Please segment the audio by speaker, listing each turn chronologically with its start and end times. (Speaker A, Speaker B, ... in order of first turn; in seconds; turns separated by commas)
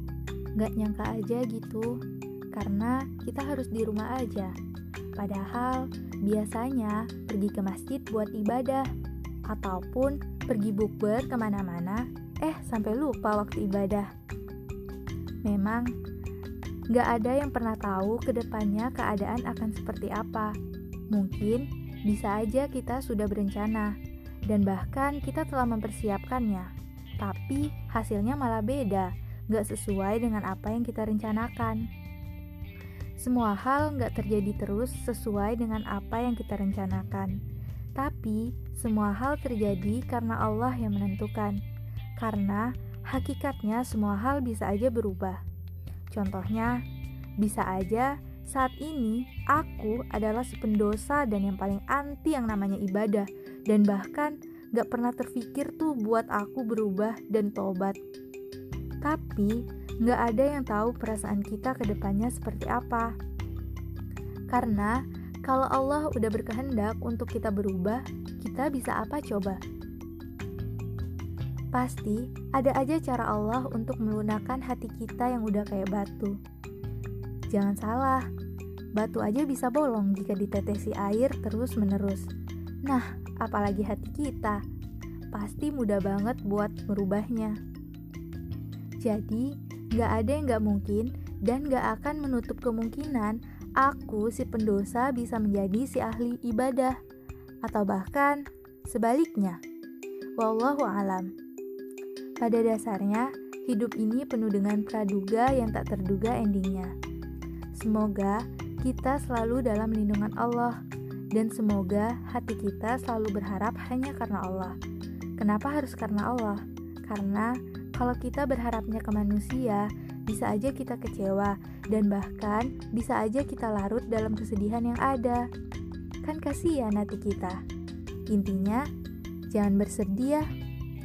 Speaker A: 0.6-2.0, Speaker A: 2.5-4.5, Speaker A: 5.2-8.9, Speaker A: 9.5-14.1, Speaker A: 15.4-15.9, Speaker A: 16.9-20.6, Speaker A: 21.1-23.9, Speaker A: 24.5-31.9, Speaker A: 33.2-37.4, Speaker A: 38.0-41.6, Speaker A: 42.2-45.4, Speaker A: 46.1-46.8, Speaker A: 47.4-58.0, Speaker A: 59.0-63.1, Speaker A: 64.5-69.6, Speaker A: 71.7-76.4, Speaker A: 77.5-78.3, Speaker A: 78.9-82.3, Speaker A: 82.8-84.6, Speaker A: 85.3-87.6, Speaker A: 89.0-97.0, Speaker A: 97.6-99.6, Speaker A: 100.4-101.3, Speaker A: 102.4-106.9, Speaker A: 107.7-110.8, Speaker A: 111.3-114.8, Speaker A: 115.4-125.5, Speaker A: 126.2-127.6, Speaker A: 128.3-128.9, Speaker A: 129.5-130.5